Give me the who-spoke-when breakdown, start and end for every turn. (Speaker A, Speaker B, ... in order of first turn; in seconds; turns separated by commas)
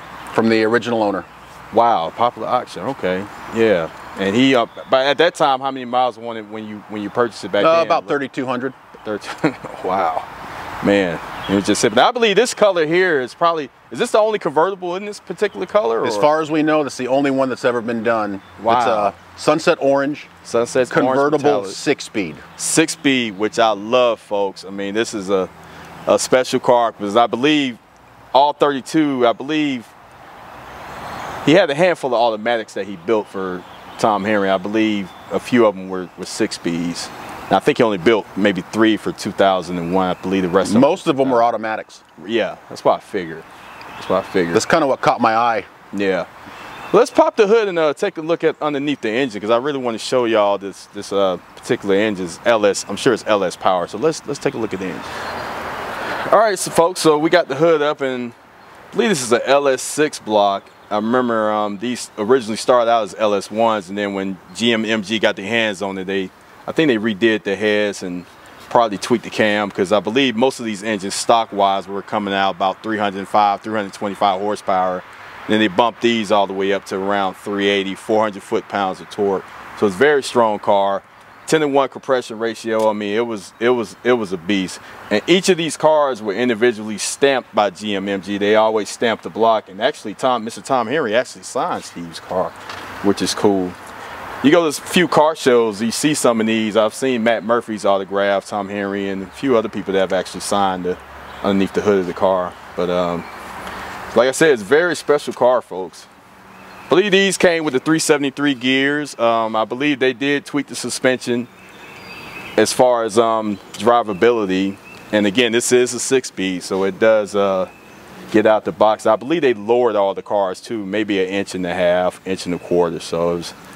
Speaker A: 0.3-1.3, Speaker B: 1.7-8.2, Speaker A: 7.6-8.8, Speaker B: 9.0-10.3, Speaker B: 10.8-16.3, Speaker A: 16.0-20.3, Speaker B: 18.6-19.1, Speaker B: 20.4-21.8, Speaker A: 20.9-22.4, Speaker B: 22.6-25.5, Speaker B: 26.1-27.8, Speaker B: 28.3-29.9, Speaker B: 31.4-41.5, Speaker A: 40.6-42.0, Speaker B: 42.2-44.6, Speaker A: 44.5-45.7, Speaker B: 45.9-46.3, Speaker B: 46.9-55.1, Speaker B: 56.3-58.4, Speaker B: 58.9-93.8, Speaker B: 94.4-103.3, Speaker B: 104.1-106.1, Speaker B: 106.9-111.5, Speaker B: 112.6-117.7, Speaker B: 118.3-123.5